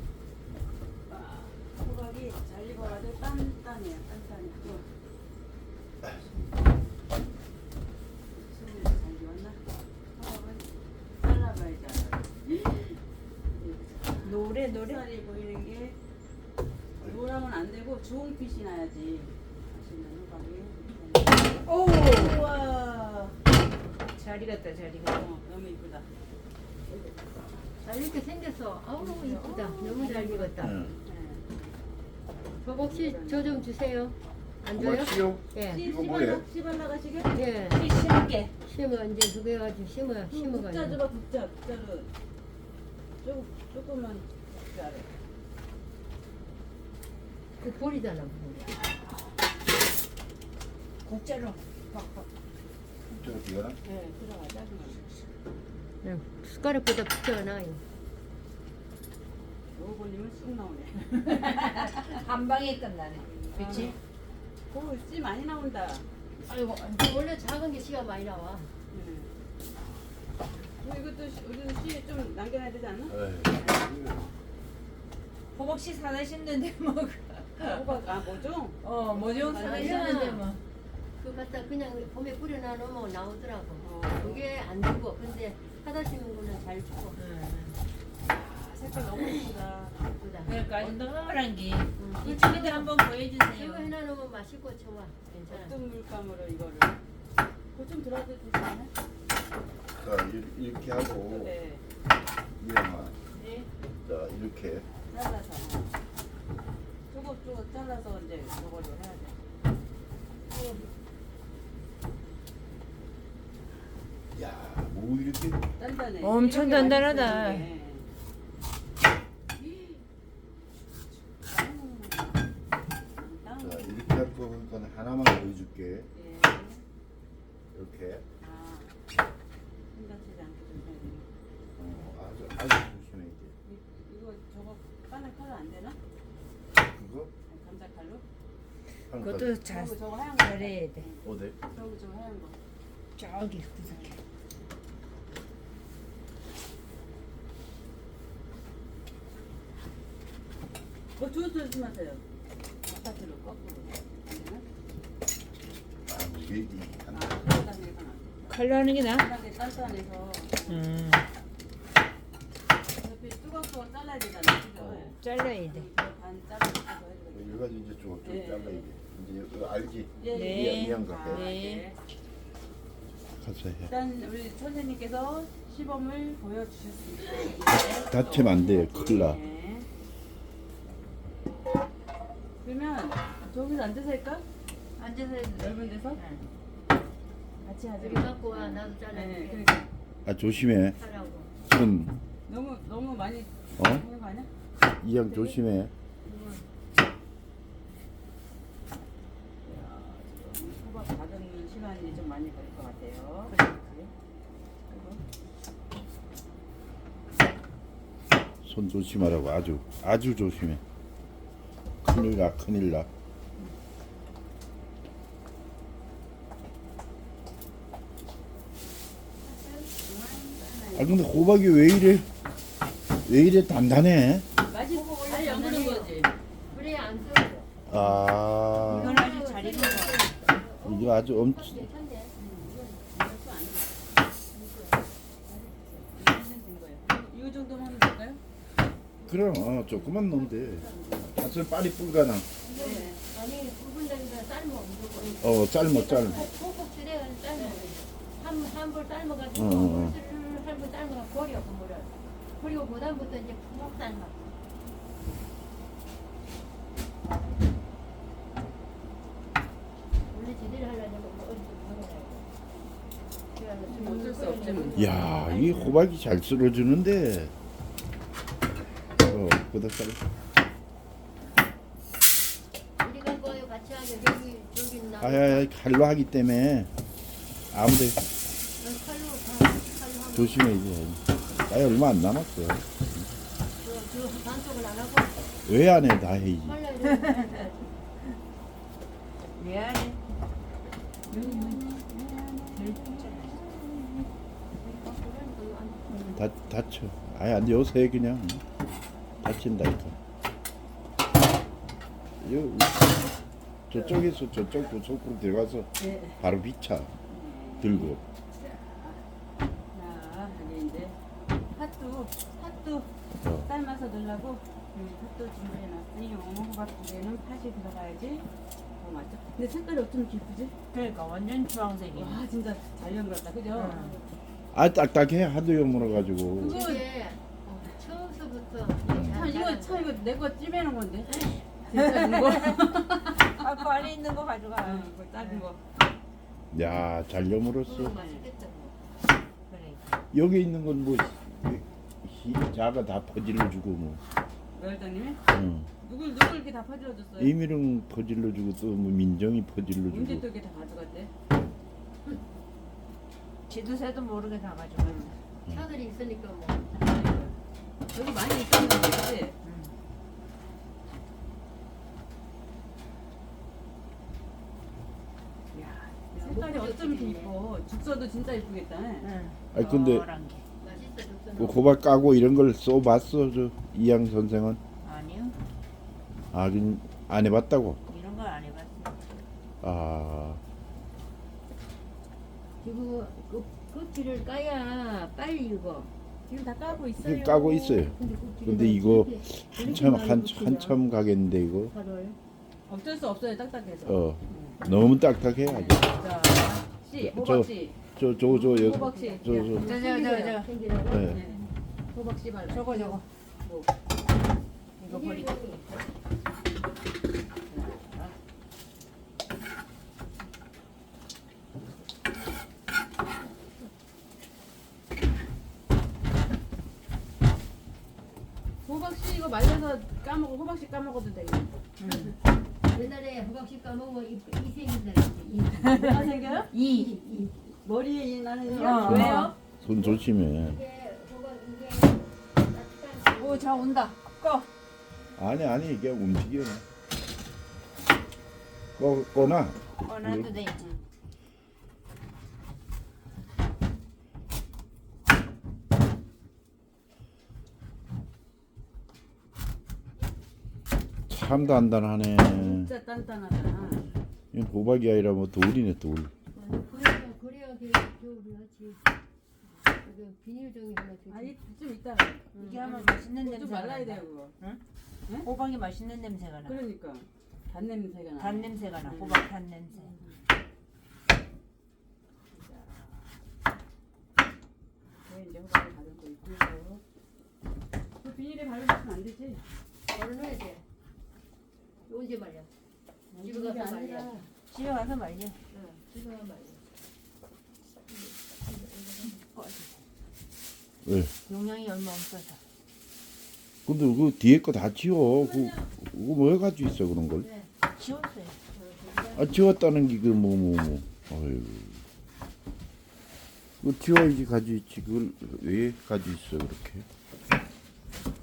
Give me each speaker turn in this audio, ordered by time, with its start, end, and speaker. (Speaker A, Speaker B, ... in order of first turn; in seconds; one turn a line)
Speaker A: 1.1-4.9
Speaker A: 8.3-9.6
Speaker A: 10.1-16.0
Speaker B: 14.2-15.0
Speaker A: 17.0-23.4
Speaker B: 21.6-22.4
Speaker B: 24.1-25.3
Speaker A: 25.1-26.1
Speaker C: 27.8-30.8
Speaker A: 29.0-31.7
Speaker D: 30.6-30.9
Speaker A: 32.5-33.6
Speaker C: 32.6-35.9
Speaker D: 34.8-36.4
Speaker A: 35.7-37.5
Speaker C: 37.3-37.9
Speaker B: 37.7-38.5
Speaker C: 38.6-41.0
Speaker A: 40.3-42.1
Speaker A: 43.2-45.1
Speaker C: 47.6-48.8
Speaker B: 51.0-52.2
Speaker D: 53.1-53.8
Speaker A: 53.8-55.0
Speaker C: 56.0-57.8
Speaker A: 59.7-62.1
Speaker B: 61.1-64.0
Speaker A: 63.4-63.9
Speaker A: 64.7-66.1
Speaker B: 66.5-66.8
Speaker C: 66.5-68.7
Speaker A: 68.9-69.3
Speaker A: 70.8-73.2
Speaker D: 73.1-74.3
Speaker B: 75.5-77.8
Speaker A: 77.6-80.2
Speaker B: 78.8-80.6
Speaker C: 79.4-80.5
Speaker C: 81.2-87.2
Speaker A: 83.8-84.4
Speaker B: 87.2-87.8
Speaker A: 88.2-90.0
Speaker C: 90.0-90.5
Speaker B: 90.4-93.9
Speaker A: 90.7-91.0
Speaker C: 92.0-92.3
Speaker A: 92.2-93.0
Speaker C: 93.5-95.7
Speaker A: 95.5-97.0
Speaker A: 97.7-98.9
Speaker D: 100.0-101.5
Speaker A: 101.3-101.8
Speaker D: 102.6-103.1
Speaker B: 103.3-103.7
Speaker D: 104.0-104.8
Speaker A: 105.1-106.0
Speaker A: 107.1-109.3
Speaker D: 114.3-115.6
Speaker A: 115.8-118.0
Speaker B: 116.2-117.7
Speaker A: 119.6-120.0
Speaker A: 121.4-122.4
Speaker A: 123.2-124.0
Speaker D: 123.6-126.1
Speaker A: 126.1-126.8
Speaker D: 127.7-128.2
Speaker A: 128.4-128.9
Speaker A: 129.9-131.2
Speaker D: 131.8-133.5
Speaker A: 133.6-136.0
Speaker D: 136.8-137.3
Speaker A: 137.5-138.2
Speaker D: 139.1-139.5
Speaker B: 139.1-141.1
Speaker A: 139.6-142.6
Speaker D: 141.2-141.6
Speaker B: 143.2-144.2
Speaker A: 143.8-144.1
Speaker A: 151.2-152.2
Speaker A: 152.8-154.6
Speaker D: 156.1-157.4
Speaker A: 157.1-160.9
Speaker B: 158.5-159.3
Speaker B: 160.7-161.3
Speaker A: 163.0-167.7
Speaker D: 164.7-165.1
Speaker B: 165.2-165.8
Speaker D: 167.3-171.5
Speaker A: 168.2-168.9
Speaker A: 170.2-172.0
Speaker B: 170.3-171.8
Speaker D: 173.4-173.9
Speaker A: 173.9-179.9
Speaker D: 177.7-179.4
Speaker A: 182.6-184.4
Speaker B: 185.0-186.4
Speaker A: 185.6-186.2
Speaker A: 187.6-189.9
Speaker C: 188.0-189.7
Speaker D: 190.2-191.0
Speaker C: 191.0-191.5
Speaker D: 191.7-192.1
Speaker A: 192.5-194.5
Speaker D: 193.8-194.0
Speaker D: 195.0-195.9
Speaker A: 195.2-195.6
Speaker C: 196.2-196.6
Speaker A: 199.6-204.1
Speaker B: 203.5-204.0
Speaker A: 204.9-205.2
Speaker D: 208.6-210.8
Speaker D: 212.0-213.1
Speaker C: 219.5-219.9
Speaker A: 219.9-221.2
Speaker D: 220.9-222.3
Speaker D: 223.2-224.5
Speaker A: 224.6-226.3
Speaker C: 224.9-226.2
Speaker C: 226.7-227.7
Speaker D: 227.9-229.2
Speaker C: 228.8-232.3
Speaker B: 228.8-230.3
Speaker D: 230.8-231.8
Speaker A: 232.4-234.0
Speaker C: 234.5-235.0
Speaker A: 235.4-238.4
Speaker D: 239.2-242.5
Speaker A: 239.9-241.3
Speaker C: 242.6-254.3
Speaker A: 242.7-243.2
Speaker D: 245.4-246.5
Speaker A: 247.6-248.0
Speaker D: 249.5-250.2
Speaker C: 260.3-262.5
Speaker C: 263.5-265.3
Speaker A: 263.9-265.1
Speaker B: 264.3-265.3
Speaker D: 264.9-267.5
Speaker D: 269.2-270.2
Speaker C: 273.0-275.7
Speaker D: 275.2-276.9
Speaker D: 277.7-278.2
Speaker C: 278.8-280.6
Speaker D: 280.3-283.3
Speaker C: 283.8-285.5
Speaker D: 285.6-286.8
Speaker C: 286.6-288.0
Speaker B: 287.0-287.6
Speaker B: 289.6-290.2
Speaker A: 291.3-294.3
Speaker B: 291.3-291.8
Speaker B: 292.7-293.6
Speaker C: 294.8-296.4
Speaker D: 296.3-298.6
Speaker D: 299.4-300.2
Speaker D: 302.4-303.3
Speaker D: 303.9-307.1
Speaker A: 303.9-304.3
Speaker A: 306.0-306.4
Speaker A: 307.3-309.2
Speaker D: 307.8-308.2
Speaker A: 309.9-311.2
Speaker A: 311.7-313.1
Speaker D: 313.4-313.7
Speaker A: 313.6-318.5
Speaker A: 319.0-320.8
Speaker B: 320.9-322.4
Speaker A: 322.1-324.1
Speaker B: 323.7-324.1
Speaker C: 323.9-324.1
Speaker D: 324.7-326.8
Speaker A: 326.5-327.1
Speaker C: 326.6-330.1
Speaker A: 329.0-334.1
Speaker D: 329.1-329.4
Speaker B: 329.4-329.6
Speaker B: 331.9-332.6
Speaker B: 333.3-335.7
Speaker A: 334.8-335.8
Speaker D: 336.7-338.1
Speaker C: 337.8-339.0
Speaker A: 338.2-338.4
Speaker B: 339.7-340.2
Speaker D: 340.3-344.2
Speaker A: 344.7-345.4
Speaker D: 345.5-345.9
Speaker A: 346.0-347.5
Speaker D: 347.4-350.4
Speaker A: 350.1-351.3
Speaker B: 353.7-355.3
Speaker A: 355.0-355.3
Speaker C: 355.7-356.9
Speaker A: 356.9-357.5
Speaker A: 358.1-359.6
Speaker B: 359.6-359.9
Speaker A: 365.7-369.3
Speaker C: 366.3-367.5
Speaker B: 369.2-370.6
Speaker D: 369.7-370.2
Speaker C: 370.8-371.9
Speaker D: 371.6-374.8
Speaker B: 375.0-375.5
Speaker D: 376.5-378.0
Speaker B: 378.1-379.2
Speaker D: 379.8-380.6
Speaker C: 382.8-386.1
Speaker A: 386.4-388.1
Speaker D: 387.2-391.9
Speaker C: 388.1-391.0
Speaker C: 391.9-392.4
Speaker A: 392.9-394.8
Speaker D: 394.1-396.1
Speaker A: 395.6-400.6
Speaker B: 396.1-396.8
Speaker D: 397.2-400.0
Speaker C: 399.1-399.4
Speaker B: 399.7-400.7
Speaker C: 399.9-401.5
Speaker D: 401.1-401.4
Speaker A: 401.3-403.9
Speaker B: 402.7-403.2
Speaker B: 405.0-405.5
Speaker C: 405.1-405.9
Speaker A: 407.7-408.3
Speaker A: 418.8-422.1
Speaker B: 422.0-422.3
Speaker C: 422.9-427.6
Speaker B: 425.7-427.1
Speaker A: 425.9-426.7
Speaker A: 427.6-429.5
Speaker B: 428.7-429.5
Speaker D: 428.8-430.8
Speaker C: 429.9-434.0
Speaker B: 433.3-434.7
Speaker D: 435.3-436.8
Speaker D: 439.0-440.6
Speaker B: 440.0-440.9
Speaker D: 451.3-452.9
Speaker A: 451.5-451.8
Speaker A: 452.5-454.1
Speaker D: 454.5-456.3
Speaker C: 456.5-459.0
Speaker C: 460.0-461.5
Speaker A: 461.3-464.5
Speaker C: 462.5-462.8
Speaker B: 462.6-464.8
Speaker B: 465.4-466.8
Speaker A: 466.6-470.4
Speaker B: 468.4-470.1
Speaker A: 472.5-473.4
Speaker A: 475.2-477.0
Speaker A: 478.2-479.6
Speaker C: 480.1-480.8
Speaker C: 482.1-482.7
Speaker A: 483.3-484.5
Speaker C: 483.4-484.5
Speaker B: 484.7-485.6
Speaker C: 485.7-486.8
Speaker C: 488.2-489.4
Speaker D: 491.0-491.3
Speaker B: 491.4-492.6
Speaker D: 493.9-497.5
Speaker A: 495.4-495.9
Speaker C: 497.4-497.7
Speaker B: 497.9-498.6
Speaker C: 498.7-499.5
Speaker D: 499.3-502.0
Speaker D: 503.8-507.1